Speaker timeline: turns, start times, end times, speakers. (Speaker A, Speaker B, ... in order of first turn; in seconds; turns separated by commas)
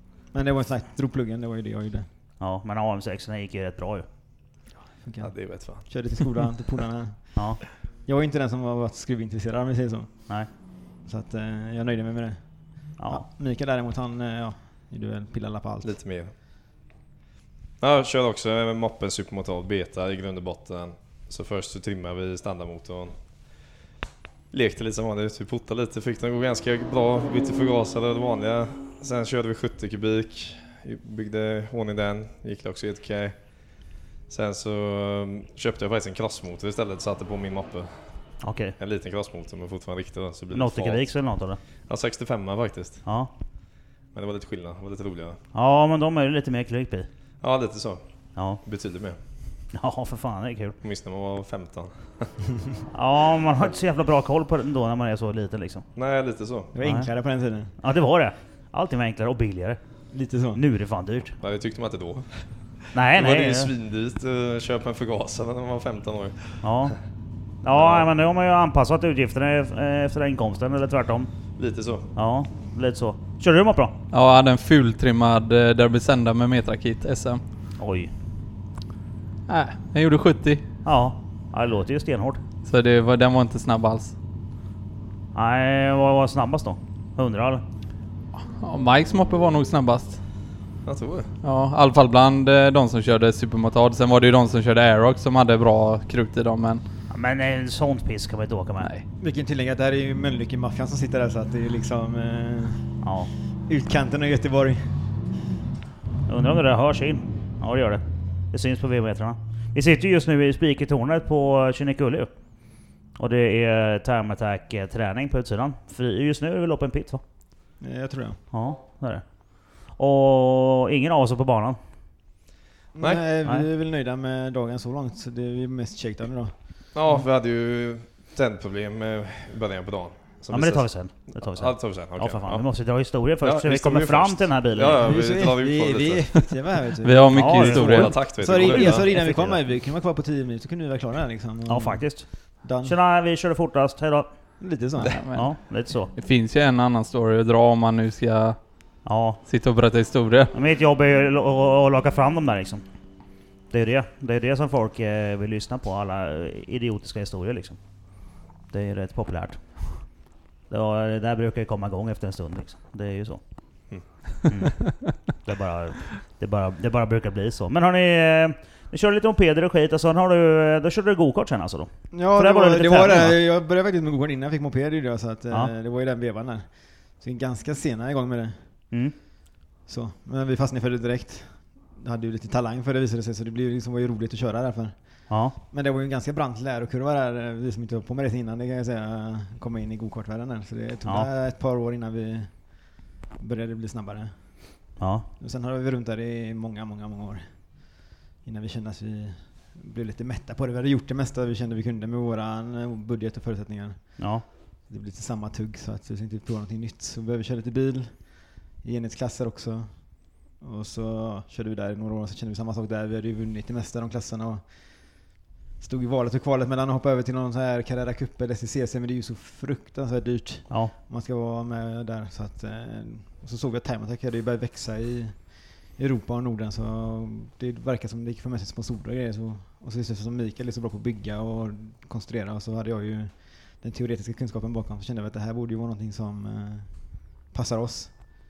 Speaker A: 0.3-2.1, Speaker B: 2.4-4.0, Speaker A: 5.0-7.2, Speaker C: 5.2-5.9, Speaker B: 7.3-7.6, Speaker A: 8.1-10.2, Speaker A: 11.1-12.4, Speaker B: 13.0-13.2, Speaker A: 13.1-15.9, Speaker C: 15.8-16.3, Speaker C: 17.8-23.1, Speaker C: 24.5-33.4, Speaker C: 34.3-38.0, Speaker B: 38.4-38.7, Speaker C: 38.8-41.0, Speaker B: 40.5-41.6, Speaker C: 41.9-43.0, Speaker B: 43.0-43.3, Speaker C: 44.1-45.4, Speaker B: 45.5-47.1, Speaker C: 47.4-48.0, Speaker B: 48.4-48.6, Speaker C: 48.6-49.2, Speaker B: 49.7-50.8, Speaker C: 50.8-52.4, Speaker B: 52.9-55.8, Speaker C: 55.9-56.7, Speaker A: 56.7-57.7, Speaker B: 56.8-57.1, Speaker B: 57.8-59.8, Speaker A: 60.1-60.6, Speaker B: 60.5-61.3, Speaker C: 61.4-62.5, Speaker B: 62.9-63.7, Speaker C: 63.1-66.6, Speaker B: 66.6-67.0, Speaker B: 67.6-71.3, Speaker C: 67.7-68.1, Speaker C: 71.6-72.1, Speaker B: 72.1-73.9, Speaker D: 74.1-77.4, Speaker B: 77.8-78.1, Speaker D: 79.5-80.6, Speaker B: 80.8-82.4, Speaker D: 82.6-84.1, Speaker B: 85.3-87.6, Speaker D: 88.4-90.2, Speaker C: 90.8-91.3, Speaker D: 91.4-96.8, Speaker B: 97.1-98.9, Speaker A: 99.2-102.9, Speaker B: 103.0-103.3, Speaker A: 103.7-104.8, Speaker B: 106.3-112.3, Speaker B: 113.2-117.2, Speaker A: 117.8-118.4, Speaker B: 118.5-119.2, Speaker B: 119.9-121.8, Speaker A: 122.9-126.5, Speaker C: 126.9-132.6, Speaker B: 130.5-135.0, Speaker C: 133.4-136.3, Speaker A: 135.0-142.1, Speaker D: 137.0-138.3, Speaker B: 137.3-139.6, Speaker C: 137.8-139.2, Speaker B: 141.7-144.3, Speaker A: 142.6-142.9, Speaker A: 144.6-145.2, Speaker D: 145.0-148.6, Speaker B: 145.3-146.1, Speaker B: 149.0-149.4, Speaker D: 149.4-150.5, Speaker B: 150.5-152.8, Speaker B: 153.7-157.8, Speaker B: 158.7-159.6, Speaker B: 160.7-163.4, Speaker B: 164.5-173.4, Speaker A: 172.1-178.6, Speaker A: 179.9-194.8, Speaker B: 185.3-185.6, Speaker B: 195.0-195.3, Speaker A: 195.4-210.0, Speaker B: 204.2-204.4, Speaker A: 210.6-214.6, Speaker A: 215.8-236.9, Speaker A: 237.5-238.1